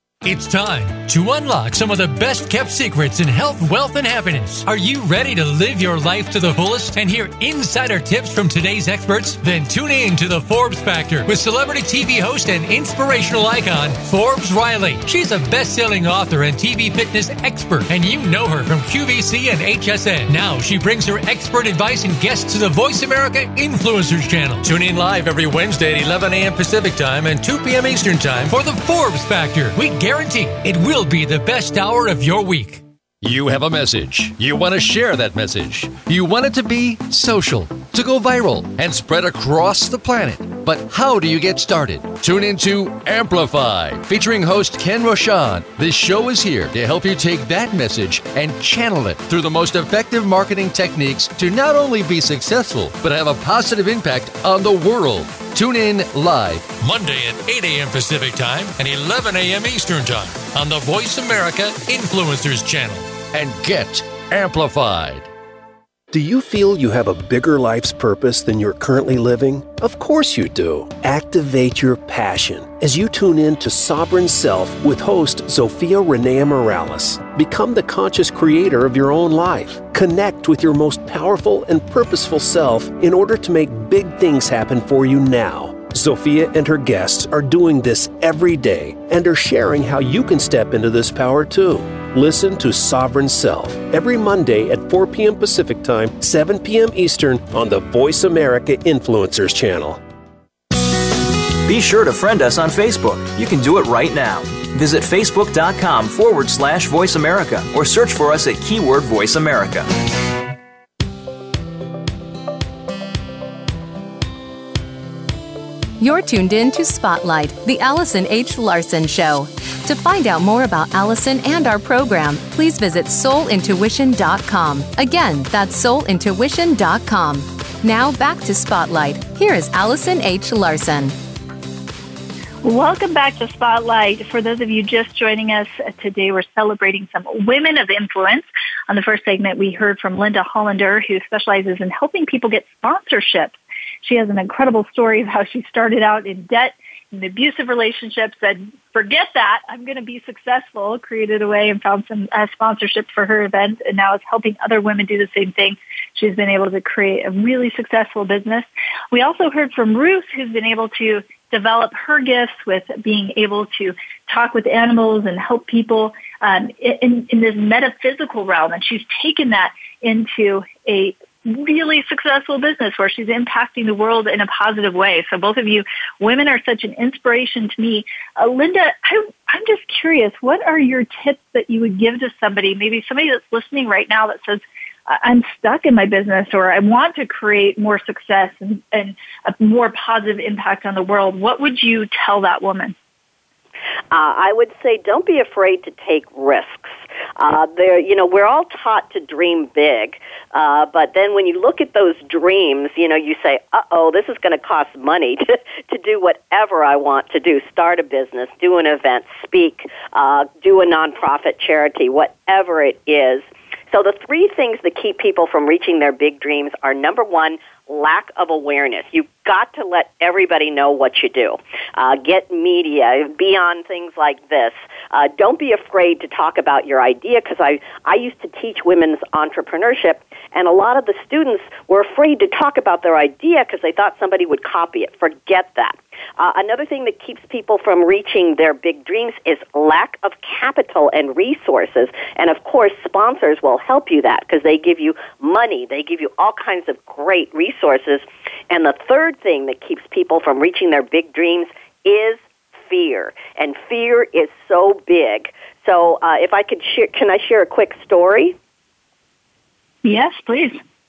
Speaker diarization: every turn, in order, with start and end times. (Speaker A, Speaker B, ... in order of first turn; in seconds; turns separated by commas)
Speaker A: 0.2-32.8, Speaker B: 33.2-56.9, Speaker A: 56.9-63.1, Speaker B: 63.3-65.3, Speaker C: 66.1-100.0, Speaker D: 101.7-109.9, Speaker E: 116.0-131.2, Speaker F: 132.6-192.9, Speaker G: 194.1-258.6, Speaker F: 260.0-260.8